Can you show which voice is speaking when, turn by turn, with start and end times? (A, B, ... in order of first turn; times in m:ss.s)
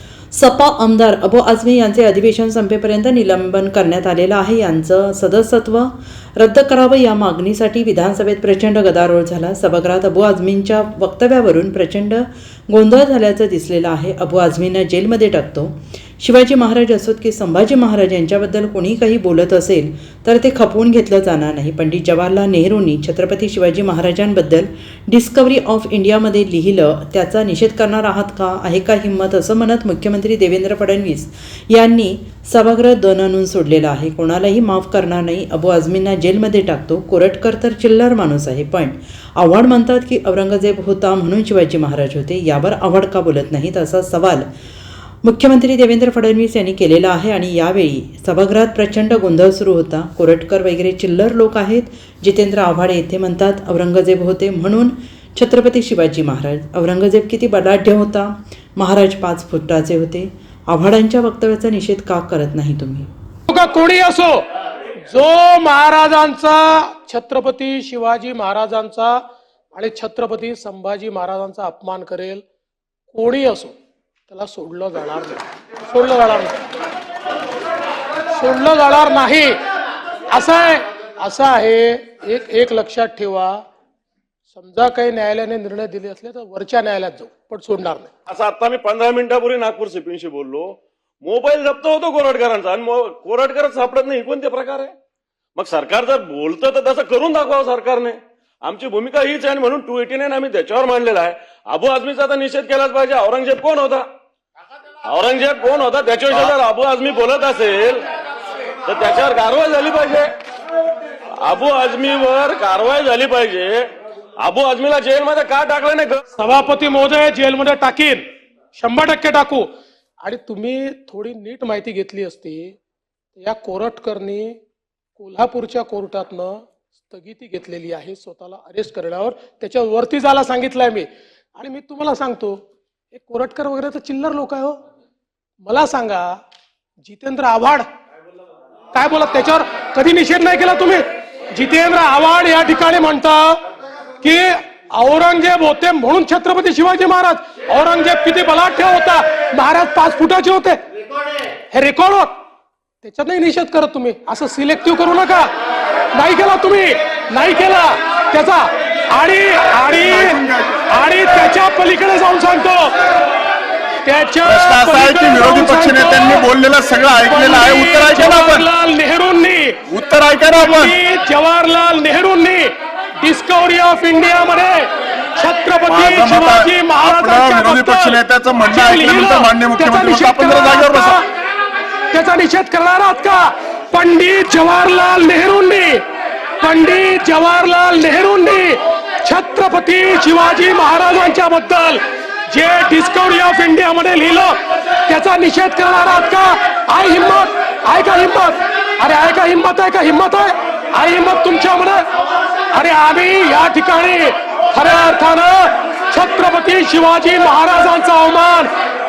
0:00.3-0:44.5 A
0:45.2-1:03.1 A
1:03.5-1:04.4 B
1:05.1-1:09.2 B
1:09.7-1:12.4 B
1:13.1-1:13.7 B
1:14.3-1:16.6 B
1:18.3-1:19.6 B
1:20.3-1:23.6 B
1:24.5-1:28.1 B
1:28.3-1:34.9 C
1:35.6-1:44.1 C
1:45.0-1:48.0 C
1:48.8-1:50.3 C
1:51.4-1:53.9 C
1:54.4-1:56.2 C
1:56.3-1:59.7 B
2:00.2-2:02.7 B
2:03.4-2:04.5 B
2:05.2-2:12.6 B
2:13.1-2:14.8 B
2:15.6-2:16.3 B
2:17.0-2:17.8 B
2:18.9-2:23.6 B
2:24.2-2:30.8 B
2:31.7-2:32.3 B
2:33.0-2:35.5 B
2:36.1-2:42.9 B
2:40.2-2:40.5 D
2:44.0-2:46.5 B
2:44.4-2:48.6 D
2:47.2-2:49.8 B
2:49.9-2:50.9 D
2:50.5-3:01.2 B
2:55.9-3:01.2 D
3:02.1-3:06.0 B
3:06.6-3:22.0 B
3:22.7-3:28.7 B